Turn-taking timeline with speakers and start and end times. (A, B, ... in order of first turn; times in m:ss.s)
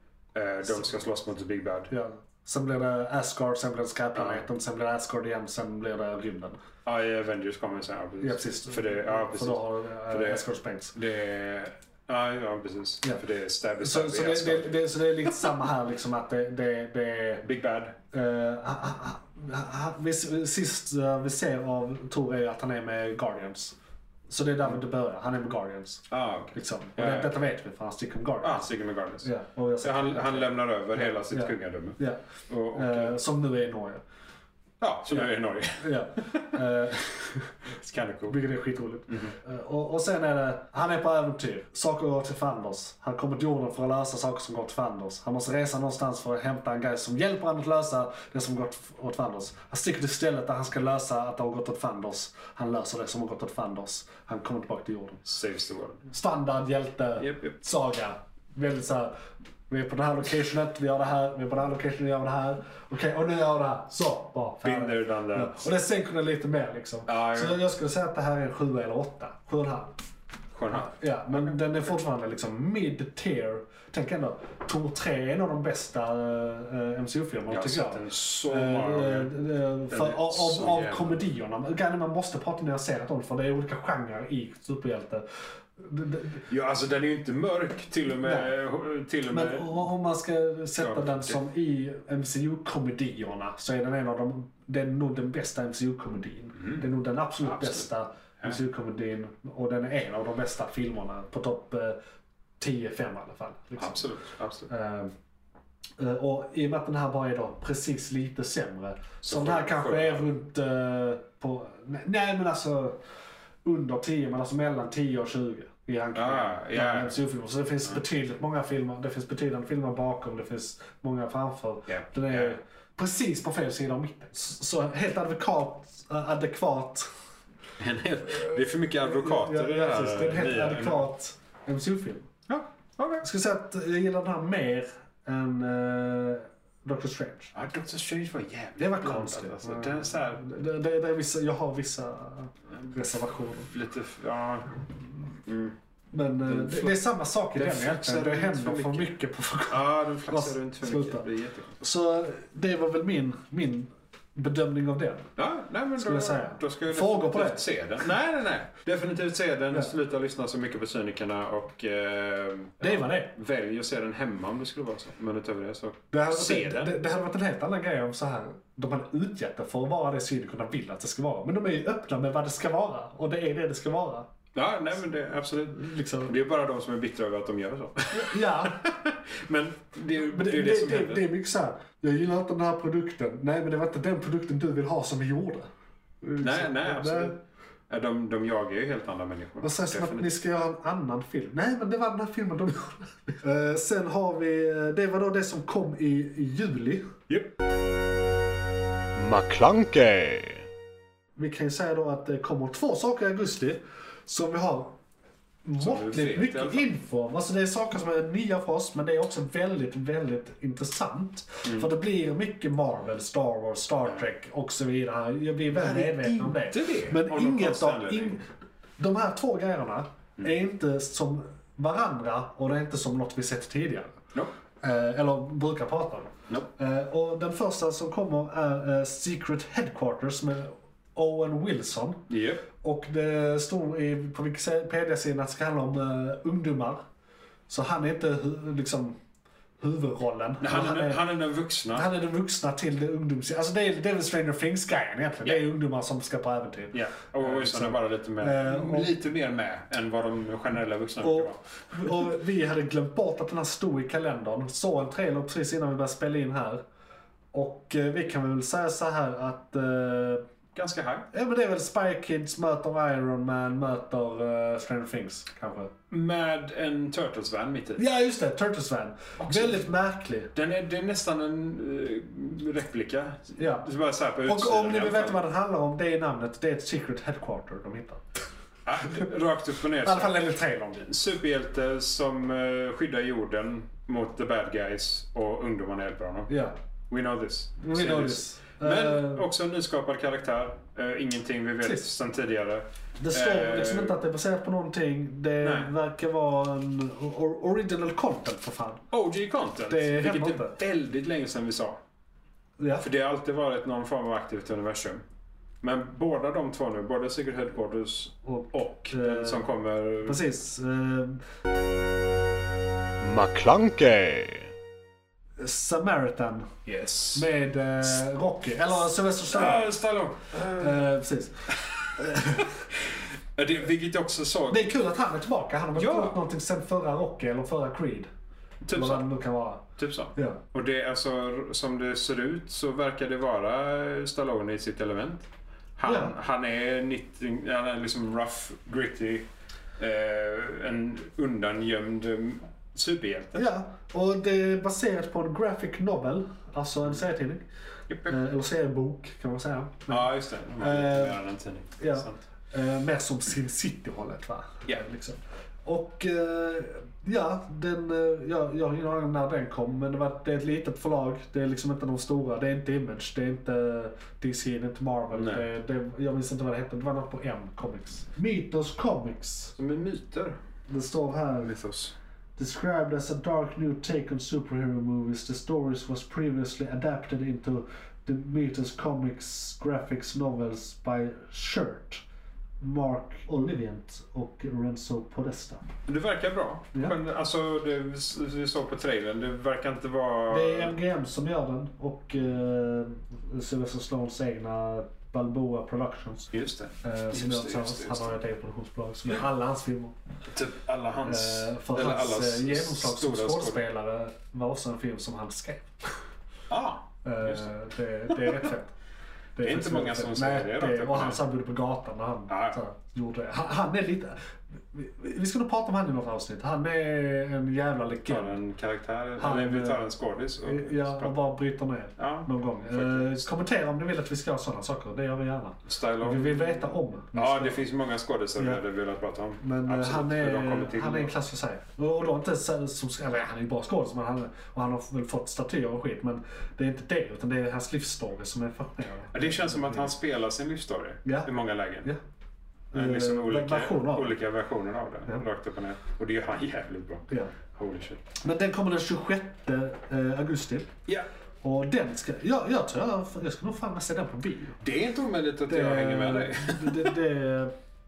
0:00.3-0:01.9 A
0:00.6-0:00.9 B
0:01.9-0:06.6 B
0:04.1-0:04.4 A
0:06.8-0:14.7 A
0:08.2-0:10.9 B
0:13.8-0:17.4 B
0:17.4-0:17.9 A
0:18.1-0:23.7 B
0:24.3-0:34.0 B
0:26.1-0:27.3 A
0:28.4-0:29.3 A
0:29.8-0:33.1 A
0:34.8-0:36.4 A
0:35.8-0:37.6 B
0:37.7-0:38.4 A
0:38.3-0:55.2 B
0:39.1-0:39.3 A
0:55.2-0:56.1 A
0:56.1-0:59.1 B
0:57.2-0:57.5 A
0:59.7-1:09.9 B
1:04.6-1:05.7 A
1:07.0-1:07.6 A
1:10.5-1:11.6 A
1:10.7-1:25.2 B
1:17.5-1:19.3 A
1:19.9-1:21.2 A
1:25.8-1:26.4 B
1:26.5-1:29.9 A
1:28.2-1:28.5 B
1:29.3-1:42.0 B
1:30.8-1:31.4 A
1:37.4-1:37.9 A
1:42.6-1:44.1 B
1:43.8-1:44.7 A
1:44.7-1:45.1 B
1:46.0-1:53.0 B
1:49.2-1:50.2 A
1:53.6-2:07.1 B
1:56.1-1:57.2 A
2:01.9-2:02.6 A
2:07.8-2:11.1 A
2:09.0-2:12.3 B
2:12.5-2:13.2 A
2:13.2-2:17.5 B
2:17.5-2:20.4 A
2:18.8-2:23.7 B
2:23.5-2:25.7 A
2:26.1-2:31.2 B
2:26.4-2:27.0 A
2:27.5-2:29.1 A
2:29.7-2:31.8 A
2:31.8-2:35.3 B
2:35.4-2:47.0 A
2:36.0-2:37.7 B
2:42.8-2:43.4 B
2:46.1-2:54.3 B
2:54.5-3:01.3 A
2:55.7-2:56.3 B
2:58.1-2:58.9 B
3:00.1-3:05.7 B
3:06.2-3:07.3 B
3:06.4-3:10.3 A
3:09.6-3:17.1 B
3:19.2-3:20.6 A
3:21.4-3:24.9 B
3:25.6-3:38.4 B
3:25.8-3:26.9 A
3:31.6-3:31.9 A
3:35.7-3:38.4 A
3:39.0-3:44.2 B
3:44.8-3:52.2 B
3:52.3-3:52.6 A
3:52.8-3:57.0 B
3:57.7-3:59.2 B
3:59.8-4:01.2 B
4:00.6-4:02.1 A
4:01.9-4:09.1 B
4:06.9-4:11.6 A
4:11.2-4:16.8 B
4:17.5-4:20.4 B
4:20.7-4:21.3 A
4:21.3-4:25.9 B
4:26.1-4:28.0 A
4:28.0-4:30.5 B
4:29.4-4:29.8 A
4:30.5-4:35.4 A
4:33.6-4:33.9 B
4:34.4-4:38.2 B
4:38.8-4:40.4 A
4:40.0-4:41.1 B
4:41.0-4:46.5 A
4:46.5-4:46.7 B
4:47.1-4:54.2 A
4:47.8-4:49.4 B
4:53.2-4:59.1 B
4:55.6-4:55.9 A
4:59.1-5:02.0 A
4:59.9-5:00.8 B
5:02.8-5:03.1 B
5:03.0-5:05.2 A
5:05.8-5:10.4 A
5:08.4-5:09.6 B
5:10.2-5:11.4 B
5:13.2-5:14.7 A
5:15.6-5:16.7 B
5:16.8-5:17.5 A
5:17.3-5:19.9 B
5:19.5-5:21.0 A
5:20.6-5:22.7 B
5:23.6-5:24.9 A
5:24.7-5:28.3 B
5:25.9-5:26.4 A
5:28.8-5:29.3 A
5:28.9-5:29.8 B
5:30.0-5:39.5 A
5:30.3-5:30.6 B
5:36.0-5:36.3 B
5:40.0-5:43.7 A
5:43.5-5:47.6 B
5:48.1-5:48.4 A
5:48.2-5:51.4 B
5:50.1-5:52.4 A
5:52.0-6:09.8 B
6:05.3-6:05.6 A
6:09.8-6:10.6 A
6:10.9-6:11.7 B
6:11.5-6:12.1 A
6:12.6-6:22.2 B
6:22.8-6:25.8 B
6:26.0-6:30.9 A
6:30.5-6:36.5 B
6:36.5-6:38.4 A
6:37.0-6:40.1 B
6:40.5-6:43.8 A
6:41.2-6:46.1 B
6:46.7-6:47.7 A
6:47.2-6:48.9 B
6:48.3-6:48.6 A
6:49.6-6:54.4 B
6:49.6-6:51.4 A
6:52.5-6:52.8 A
6:54.9-6:58.6 B
6:58.2-7:01.4 A
6:59.4-7:07.8 B
7:02.2-7:03.4 A
7:05.8-7:11.3 A
7:09.6-7:20.1 B
7:19.3-7:22.1 A
7:21.2-7:21.5 B
7:22.9-7:24.4 B
7:22.9-7:28.2 A
7:28.4-7:30.9 B
7:31.6-7:34.8 B
7:34.8-7:37.2 A
7:35.7-7:37.7 B